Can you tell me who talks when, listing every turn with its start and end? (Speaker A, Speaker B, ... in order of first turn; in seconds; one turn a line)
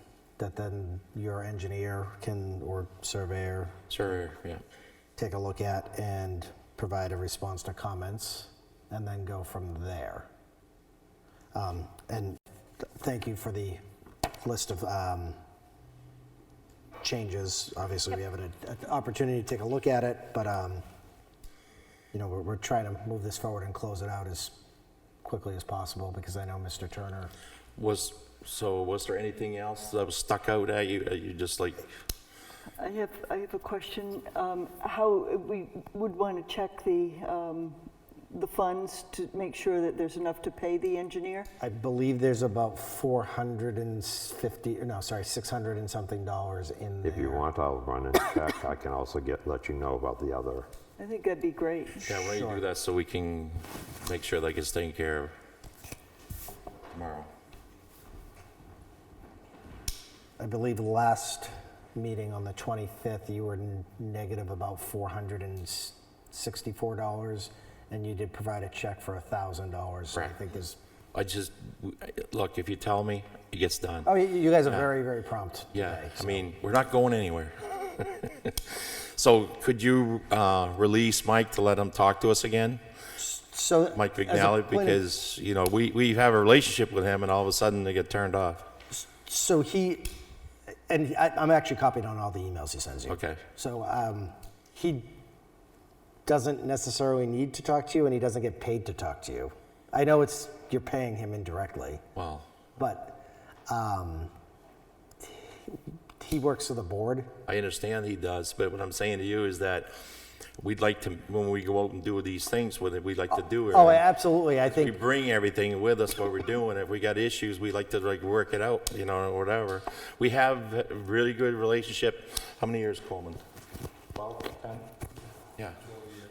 Speaker A: 0.4-3.8
Speaker B: 3.9-4.6
Speaker A: 5.2-10.3
Speaker A: 11.5-12.4
Speaker A: 13.0-13.8
Speaker A: 14.4-15.4
Speaker A: 17.0-20.8
Speaker A: 22.1-24.6
Speaker A: 25.2-27.3
Speaker B: 27.8-31.9
Speaker C: 32.8-37.8
Speaker C: 38.3-41.5
Speaker A: 41.6-47.5
Speaker D: 47.0-50.4
Speaker C: 51.0-52.1
Speaker B: 52.0-55.3
Speaker A: 52.2-52.6
Speaker B: 56.9-57.3
Speaker A: 60.4-70.8
Speaker B: 71.1-74.1
Speaker A: 74.0-76.4
Speaker B: 75.7-82.8
Speaker A: 83.2-85.0
Speaker B: 83.9-88.7
Speaker A: 88.9-90.1
Speaker A: 90.9-95.1
Speaker B: 93.1-93.4
Speaker A: 96.2-102.0
Speaker B: 102.1-102.5
Speaker A: 102.8-104.3
Speaker A: 105.2-107.3
Speaker B: 107.5-109.9
Speaker B: 110.6-114.0
Speaker A: 113.3-114.9
Speaker B: 114.6-123.4
Speaker B: 124.1-124.8